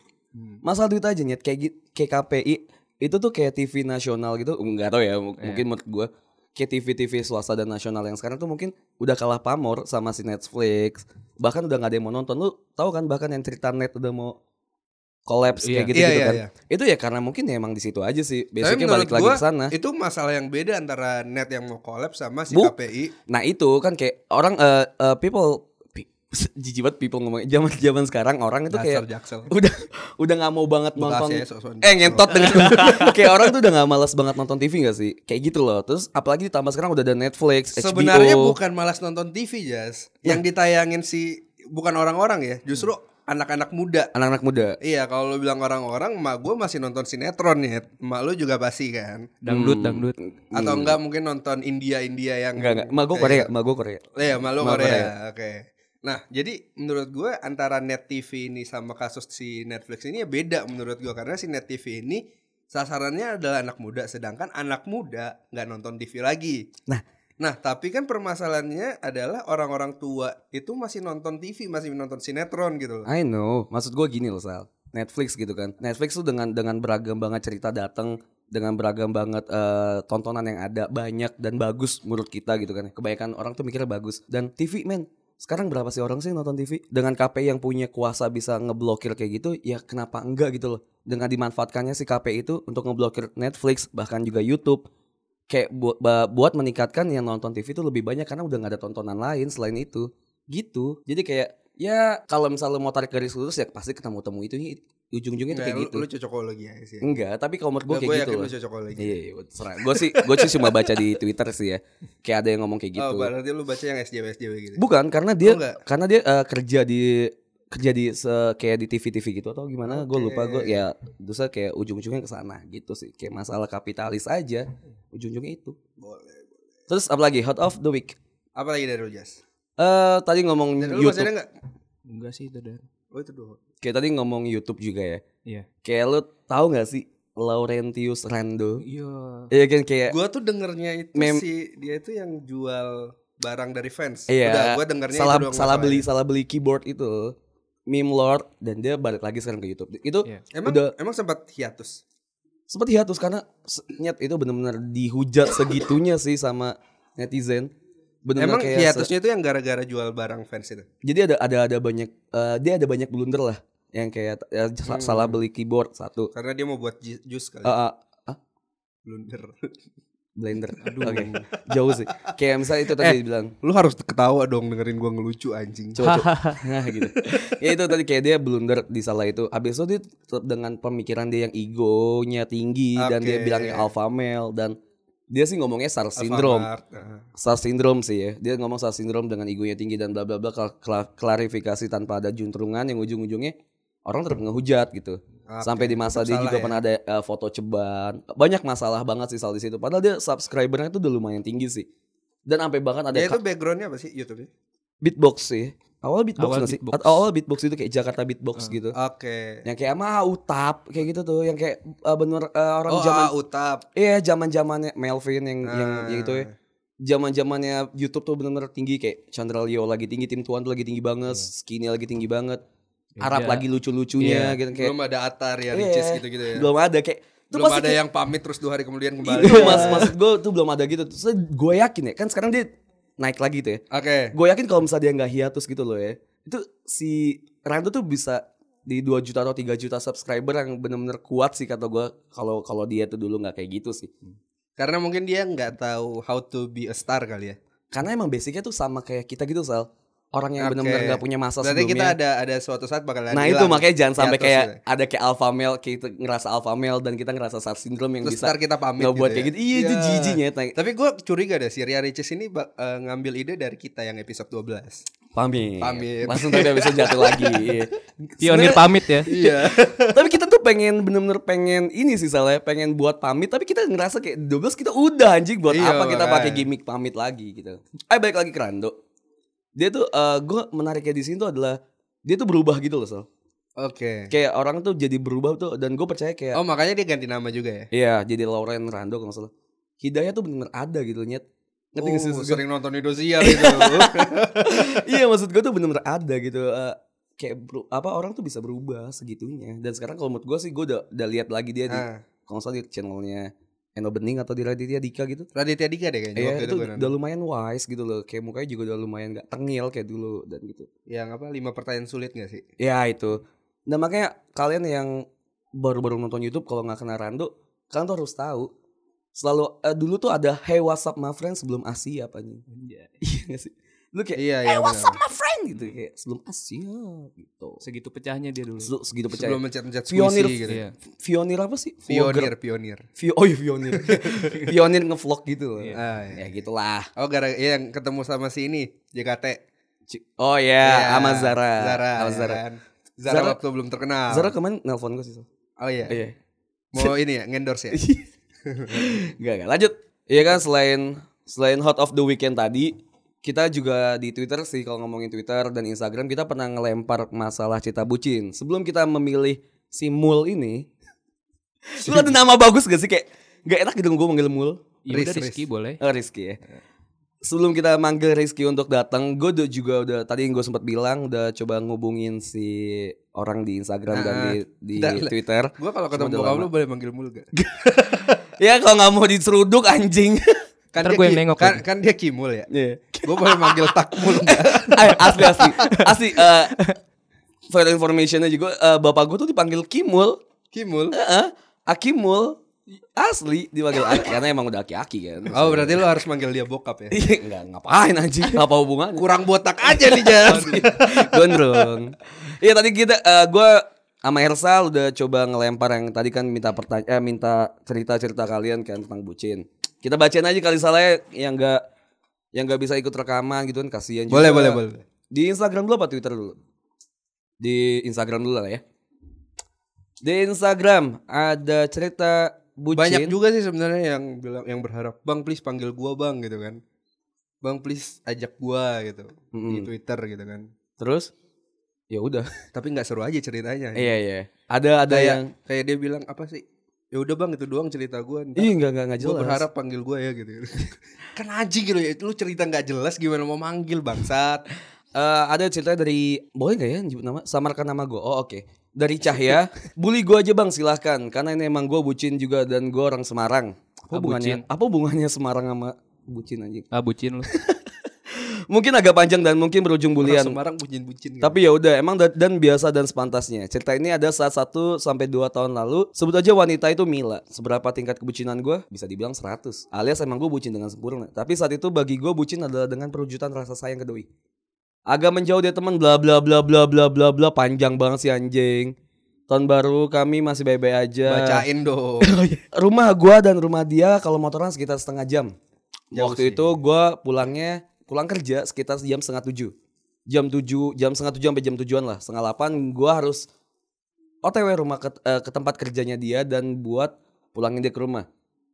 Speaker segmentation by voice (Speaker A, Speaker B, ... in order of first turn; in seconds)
Speaker A: 0.6-14.3, 15.2-19.7, 23.3-38.6, 44.1-44.8, 49.5-51.0, 52.5-54.0, 54.6-55.1, 73.0-94.9, 95.5-106.0, 107.0-113.3, 114.8-125.8, 126.9-128.2, 129.8-131.3, 133.8-135.2, 135.8-138.8, 139.5-140.2, 141.1-141.4, 144.3-147.3, 147.9-150.9, 152.7-157.7, 158.2-159.1, 161.0-166.3, 167.6-168.4, 170.3-173.5, 175.9-184.8, 185.3-186.7, 187.4-201.9, 202.4-203.4, 205.0-208.9, 209.6-213.3, 213.9-216.5, 217.0-222.6, 223.2-224.9, 225.7-228.0, 229.2-244.1, 247.9-252.2, 253.3-260.8, 265.3-279.0, 279.7-283.3, 284.3-286.6, 287.9-292.6, 293.4-305.5, 306.4-310.9, 312.8-318.7, 319.3-322.6, 323.2-327.8, 328.8-332.5, 333.2-337.1, 340.1-342.6, 343.3-343.6, 344.3-345.5, 346.1-346.4, 347.9-348.2, 348.9-360.9, 361.9-364.8, 366.0-366.6, 367.4-376.7, 377.5-380.6, 382.7-386.8, 387.7-390.4, 391.1-392.6, 393.1-396.1, 397.1-399.3, 399.8-411.8, 412.5-416.6, 417.6-418.8, 420.2-423.3, 429.5-429.9, 431.0-431.3, 432.1-432.5, 433.9-435.5, 438.6-439.6, 445.1-456.9, 457.4-460.6, 461.4-474.3, 475.1-478.9, 479.5-481.7, 482.2-485.5, 486.1-489.7, 490.3-493.5, 494.4-498.2
Speaker B: 15.6-15.9, 49.4-50.2, 132.1-132.8, 138.8-139.5, 170.8-171.3, 176.0-176.6, 206.4-207.2, 223.2-223.6, 229.4-230.0, 268.4-269.3, 322.7-323.1, 327.8-328.9, 330.7-330.9, 365.0-366.0, 381.0-381.8, 385.8-386.1, 454.1-454.6, 456.9-457.5
Speaker C: 15.9-16.5, 18.6-23.1, 28.7-29.5, 31.0-33.2, 37.7-44.1, 44.8-49.3, 50.5-53.5, 54.1-66.7, 67.4-73.1, 105.5-107.1, 107.9-109.2, 109.9-110.8, 113.0-114.8, 115.4-115.8, 119.9-120.8, 126.0-126.4, 128.6-129.4, 130.8-131.5, 133.1-133.6, 140.1-146.1, 150.5-152.0, 158.4-160.9, 164.9-165.4, 166.3-167.7, 169.1-169.7, 171.0-172.3, 172.9-176.0, 182.9-183.9, 186.2-187.2, 195.5-196.8, 203.1-204.5, 208.9-209.6, 212.9-213.8, 215.6-216.5, 224.2-226.7, 227.5-230.1, 233.9-234.3, 244.8-247.6, 250.6-254.8, 258.2-265.0, 265.8-267.8, 269.2-270.3, 275.7-276.6, 283.8-284.3, 286.5-287.9, 292.0-295.0, 301.9-302.2, 305.5-307.1, 311.1-312.6, 324.4-325.2, 329.3-330.8, 332.1-333.1, 333.9-334.6, 335.9-336.4, 337.2-339.6, 340.8-344.5, 345.8-346.2, 346.9-348.0, 348.6-349.1, 362.0-362.3, 365.1-365.6, 374.1-378.2, 380.9-382.7, 383.2-385.9, 390.7-391.2, 395.5-397.2, 399.1-401.8, 414.3-415.0, 422.9-426.8, 427.6-430.6, 432.7-434.1, 435.1-444.6, 460.2-461.5, 481.2-482.3, 486.1-486.6